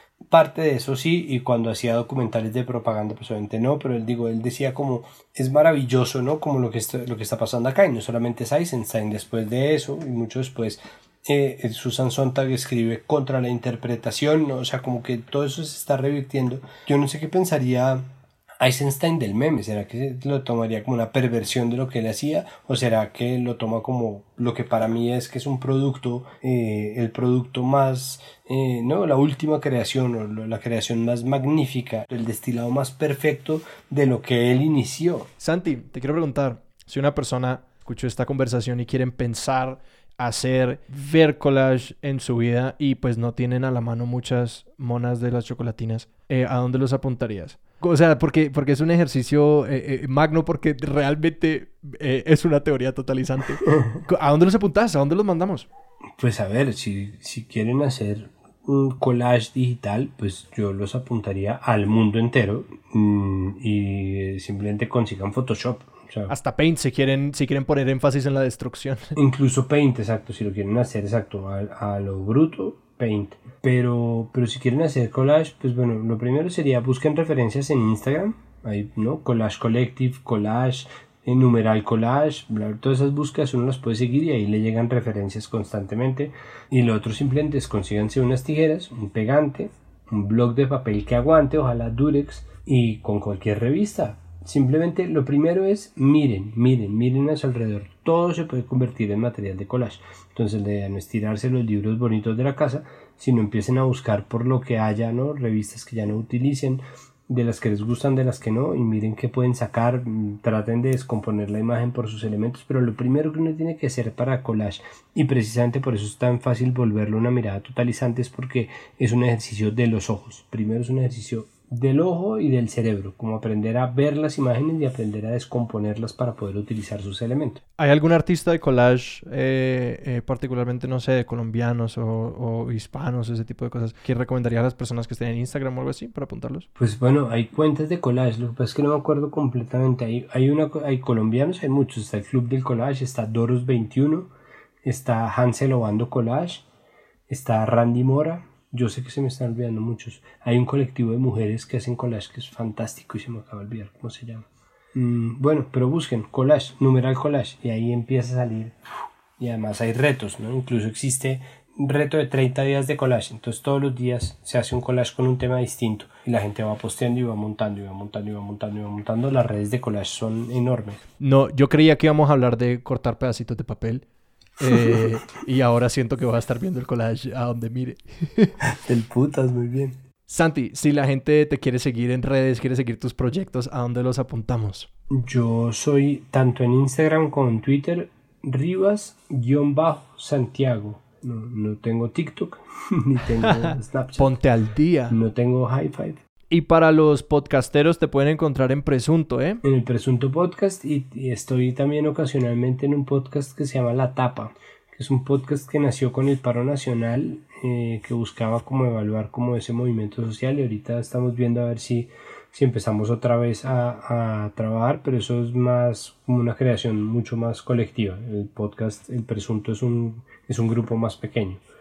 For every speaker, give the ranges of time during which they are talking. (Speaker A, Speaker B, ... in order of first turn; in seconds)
Speaker A: 0.3-18.1, 18.6-35.3, 56.2-66.3, 69.2-127.6, 136.8-144.3, 144.8-146.7, 147.3-158.8, 159.4-171.0, 178.6-180.0, 185.1-194.4, 195.1-196.2, 199.6-221.6
Speaker B: 35.4-55.7, 66.3-69.2, 127.8-136.7, 171.2-174.1, 174.6-178.6, 180.3-184.9, 193.6-195.2, 196.5-199.6